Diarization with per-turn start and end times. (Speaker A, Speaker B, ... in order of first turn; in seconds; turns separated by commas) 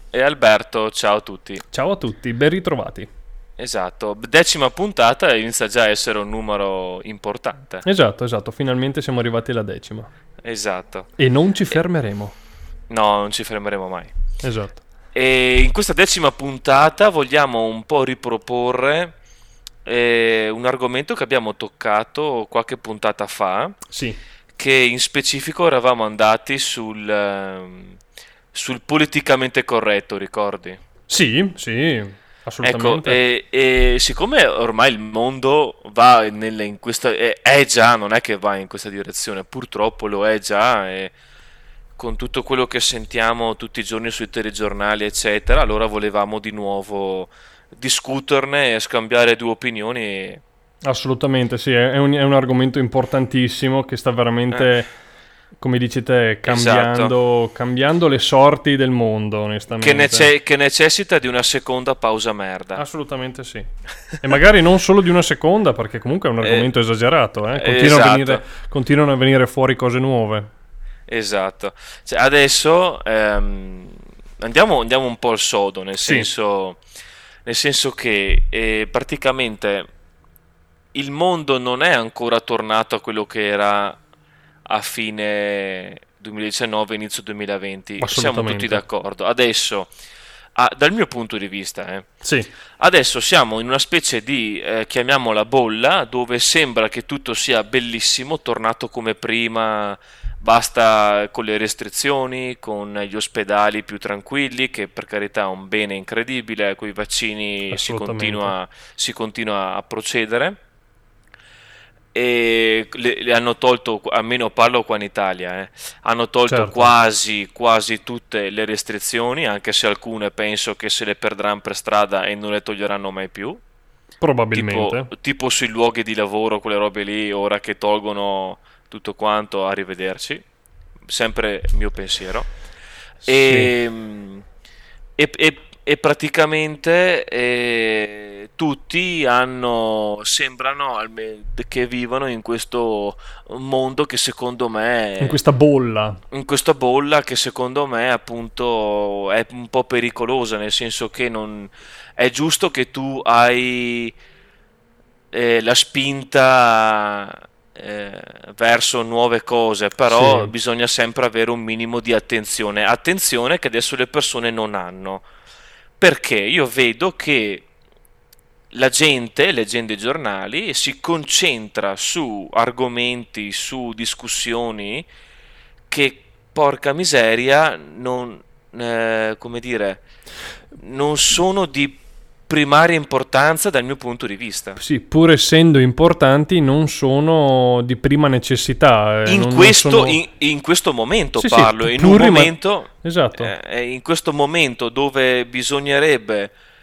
Speaker A: 0.1-1.6, Speaker B: 1.7-3.1, Speaker A: 3.6-7.9, Speaker B: 7.8-10.1, Speaker A: 10.4-11.1, Speaker B: 11.2-12.3, Speaker A: 12.9-14.1, Speaker B: 14.4-14.8, Speaker A: 15.1-19.1, Speaker A: 19.9-23.8, Speaker B: 23.9-24.2, Speaker A: 24.6-28.0, Speaker A: 28.5-30.8, Speaker B: 31.1-33.2, Speaker A: 32.6-41.1, Speaker A: 42.0-50.4, Speaker B: 50.8-54.9, Speaker B: 55.6-60.3, Speaker A: 56.5-57.1, Speaker A: 59.8-62.8, Speaker B: 62.8-70.5, Speaker A: 66.4-66.7, Speaker A: 67.5-68.4, Speaker A: 71.1-76.8, Speaker B: 76.0-76.3, Speaker A: 77.5-79.9, Speaker A: 80.9-84.0, Speaker A: 84.7-89.9, Speaker B: 88.0-88.8, Speaker A: 90.6-92.1, Speaker B: 92.2-92.5, Speaker A: 92.8-110.6, Speaker B: 107.7-108.5, Speaker A: 112.1-123.6, Speaker B: 116.5-116.9, Speaker B: 124.2-125.1, Speaker A: 124.5-130.4, Speaker A: 131.1-132.5, Speaker A: 133.2-134.4, Speaker B: 133.3-133.7, Speaker A: 135.2-145.4, Speaker B: 145.2-146.2, Speaker A: 146.3-154.2, Speaker A: 155.3-165.2, Speaker B: 160.1-160.5, Speaker A: 166.0-167.7, Speaker A: 168.7-175.1, Speaker A: 175.9-180.0, Speaker A: 180.7-184.8, Speaker B: 184.8-190.2, Speaker A: 189.3-196.5, Speaker B: 191.4-193.5